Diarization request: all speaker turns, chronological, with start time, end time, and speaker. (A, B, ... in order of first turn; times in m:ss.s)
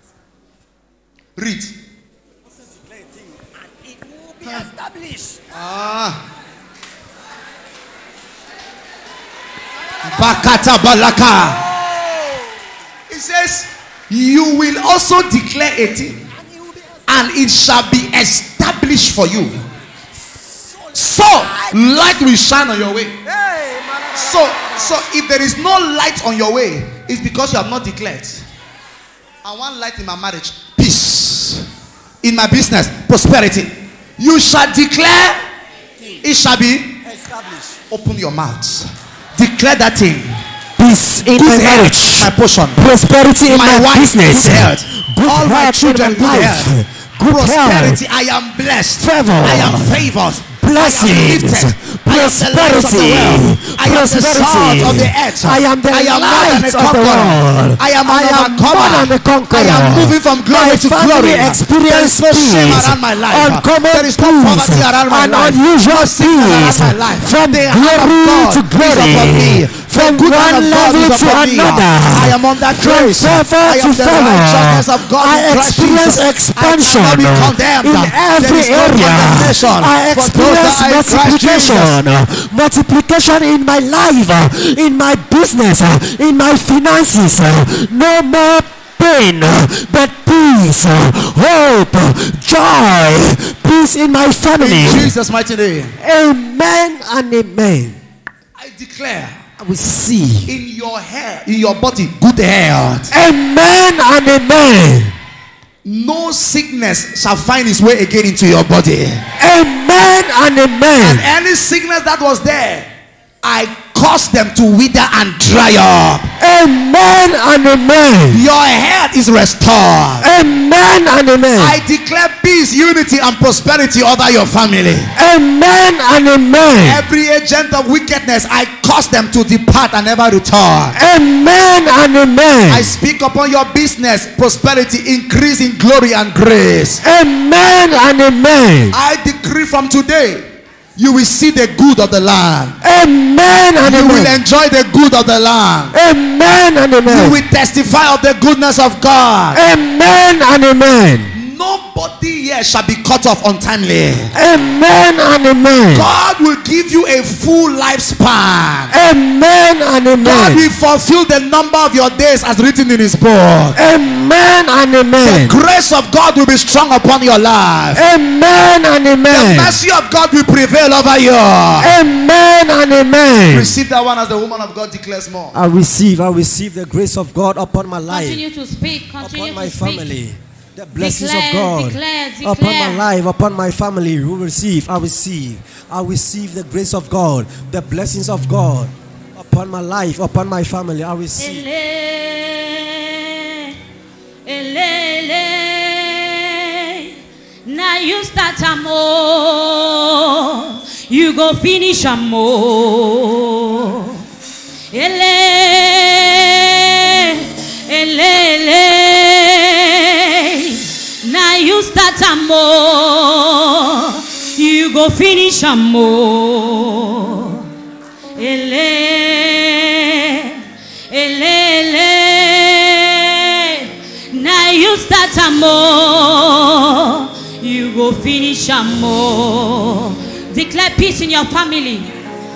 0:01.4-0:01.7 A
0:03.8-0:05.4 B
0:05.5-0:06.2 A
0:10.0-0:11.6 A
0:13.1-0:16.2 A
0:17.1-0:19.6 A
0:20.9-0:23.2 A
0:23.4-0:24.7 B
0:24.1-0:28.4 A
0:29.4-0:31.6 A
0:32.2-0:35.4 A
0:36.2-0:37.0 A
0:37.0-0:37.8 B
0:37.9-0:40.4 A
0:40.8-0:48.0 B
0:41.2-0:42.8 A
0:43.5-0:46.7 A
0:47.3-1:22.0 A
0:49.0-1:35.1 B
1:34.6-1:35.9 A
1:36.0-1:38.0 B
1:38.6-1:39.4 A
1:39.6-1:40.5 B
1:40.4-1:43.1 A
1:43.1-1:45.2 B
1:45.8-1:49.2 A
1:49.4-1:51.2 B
1:51.0-1:52.9 A
1:53.4-1:56.3 A
1:56.4-1:58.4 B
1:58.3-2:00.2 A
2:00.2-2:01.8 B
2:01.6-2:05.1 A
2:05.1-2:07.0 B
2:06.8-2:11.0 A
2:11.0-2:12.9 B
2:12.7-2:17.0 A
2:17.0-2:18.9 B
2:18.9-2:20.4 A
2:21.0-2:22.8 A
2:22.8-2:24.3 B
2:23.8-2:26.0 A
2:25.9-2:27.4 B
2:27.0-2:29.6 A
2:29.5-2:31.3 B
2:31.3-2:34.3 A
2:34.3-2:36.1 B
2:35.9-2:38.9 A
2:38.9-2:40.6 B
2:40.2-2:43.8 A
2:43.8-2:45.6 B
2:45.2-2:48.0 A
2:48.0-2:49.8 B
2:49.3-2:51.9 A
2:51.8-2:53.8 B
2:53.5-2:55.6 A
2:55.5-2:58.4 B
2:58.1-3:00.2 C
2:59.2-3:11.6 B
3:00.9-3:03.0 C
3:11.4-3:13.8 C
3:14.4-3:17.1 C
3:17.6-3:24.2 C
3:24.9-3:37.6 C
3:38.4-3:40.6 C
3:41.1-3:52.1 C